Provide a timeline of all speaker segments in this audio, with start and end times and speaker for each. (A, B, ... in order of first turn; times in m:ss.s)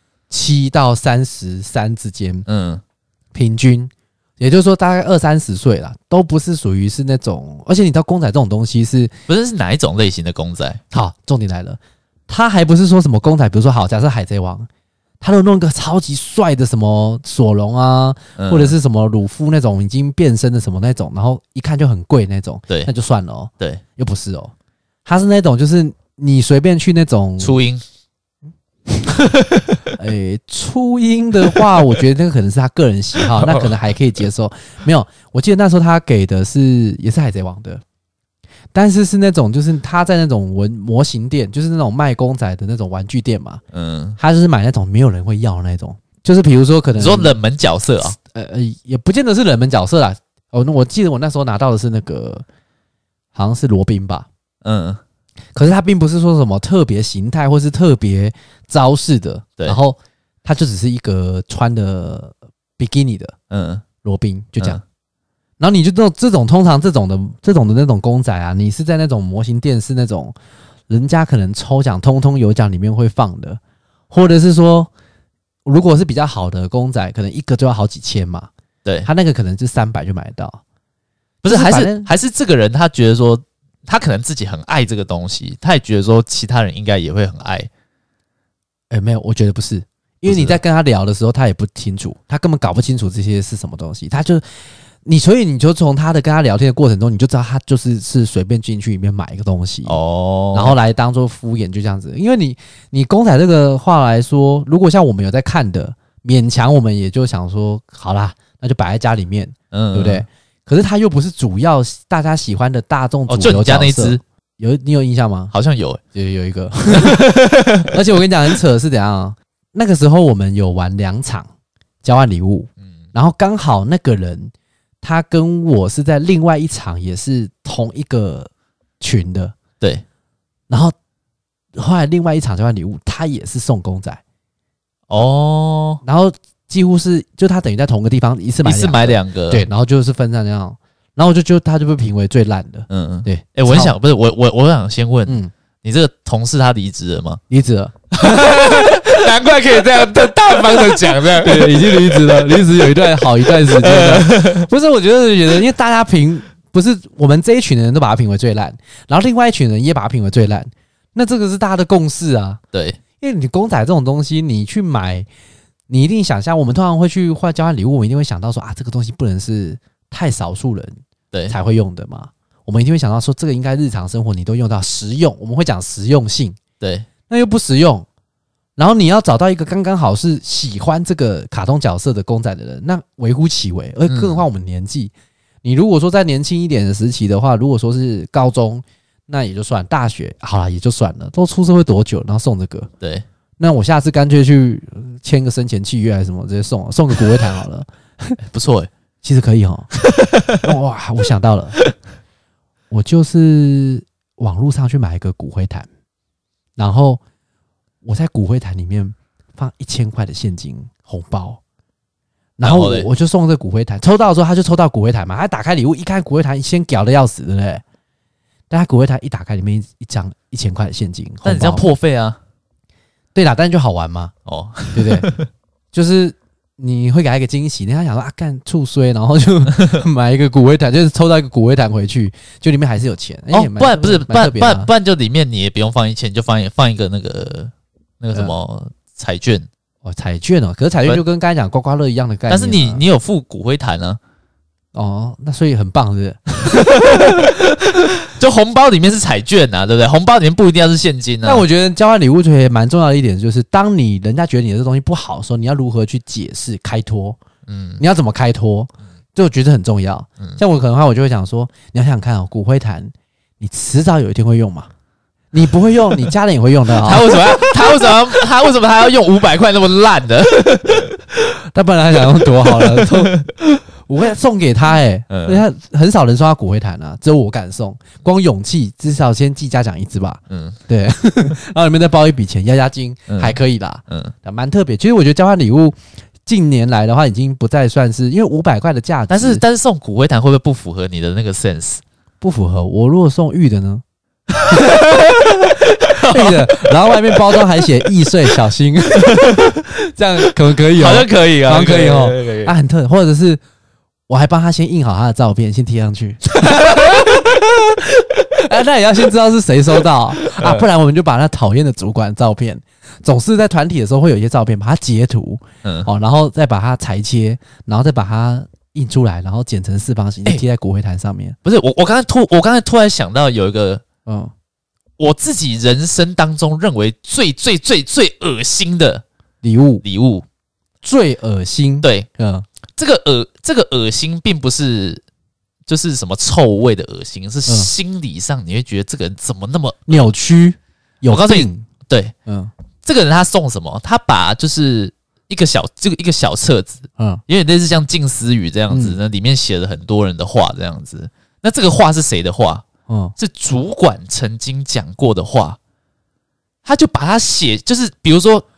0:00.3-0:02.5 A
0:02.5-0:02.8 B
0:03.3-0:09.1 A
0:09.3-0:10.8 B
0:10.9-0:14.7 A
0:15.2-0:24.5 A
0:18.4-0:18.8 B
0:25.1-0:27.6 A
0:27.4-0:27.8 B
0:29.4-0:29.9 B
0:29.9-0:37.8 A
0:33.2-0:33.7 B
0:38.7-0:43.6 A
0:43.7-0:44.2 B
0:44.2-0:47.4 A
0:47.0-0:48.2 B
0:48.1-0:52.4 A
0:53.3-0:54.3 A
0:54.6-0:55.0 B
0:55.5-1:03.4 A
1:03.5-1:03.8 B
1:04.0-1:04.8 A
1:05.6-1:10.4 A
1:10.9-1:14.9 A
1:15.6-1:18.5 A
1:19.0-1:20.6 A
1:21.4-1:27.7 B
1:21.5-1:22.1 A
1:28.9-1:34.4 A
1:30.2-1:30.6 B
1:35.0-1:40.0 A
1:39.9-1:40.8 B
1:40.5-1:55.5 A
1:49.7-1:50.2 B
1:53.3-1:54.2 B
1:55.5-1:56.0 B
1:56.1-1:57.3 A
1:56.9-1:58.0 B
1:57.9-2:01.5 A
2:02.0-2:09.5 A
2:10.7-2:10.9 A
2:11.8-2:14.2 A
2:15.1-2:16.0 B
2:16.0-2:24.0 A
2:18.6-2:19.6 B
2:22.9-2:27.4 B
2:25.3-2:25.5 A
2:27.5-2:29.0 A
2:28.1-2:32.5 B
2:30.8-2:42.6 A
2:33.4-2:34.6 B
2:42.7-2:43.0 B
2:43.2-2:45.3 A
2:45.9-2:51.0 A
2:51.5-2:56.6 A
2:56.8-2:57.1 B
2:57.3-2:58.0 A
2:58.8-3:05.1 A
3:04.1-3:04.4 B
3:05.6-3:12.9 A
3:13.0-3:13.2 B
3:13.6-3:18.4 A
3:18.4-3:18.9 B
3:19.2-3:19.9 A
3:20.0-3:20.6 B
3:20.6-3:21.8 A
3:22.9-3:25.9 A
3:26.8-3:27.2 A
3:28.0-3:31.6 A
3:32.6-3:37.8 A
3:32.6-3:33.1 B
3:38.7-3:41.8 A
3:41.4-3:42.4 B
3:43.3-3:44.3 A
3:44.5-3:45.5 B
3:44.9-3:45.3 A
3:45.9-3:54.9 A
3:53.5-3:59.7 B
4:00.0-4:03.0 A
4:02.5-4:04.2 B
4:04.9-4:07.5 A
4:06.8-4:11.7 B
4:11.4-4:17.4 A
4:17.7-4:18.0 B
4:18.0-4:24.9 A
4:25.5-4:28.2 A
4:26.9-4:31.1 B
4:31.6-4:49.6 A
4:32.4-4:33.5 B
4:35.3-4:35.6 B
4:40.5-4:40.8 B
4:43.3-4:43.6 B
4:49.3-4:52.0 B
4:52.4-4:54.0 A
4:54.6-4:55.5 A
4:54.6-4:57.6 B
4:56.1-5:03.6 A
4:59.2-4:59.8 B
5:00.4-5:02.7 B
5:04.3-5:21.6 A
5:10.4-5:10.9 B
5:15.8-5:16.1 B
5:21.6-5:24.0 B
5:24.2-5:24.5 A
5:25.2-5:29.2 B
5:29.6-5:30.0 A
5:30.0-5:30.4 B
5:31.0-5:32.7 A
5:33.0-5:35.2 B
5:35.9-5:40.2 B
5:40.1-5:41.9 A
5:41.3-5:42.3 B
5:42.5-5:42.7 A
5:43.0-5:52.8 B
5:48.9-5:49.2 A
5:53.1-5:53.4 A
5:53.4-5:55.8 B
5:56.8-5:58.6 B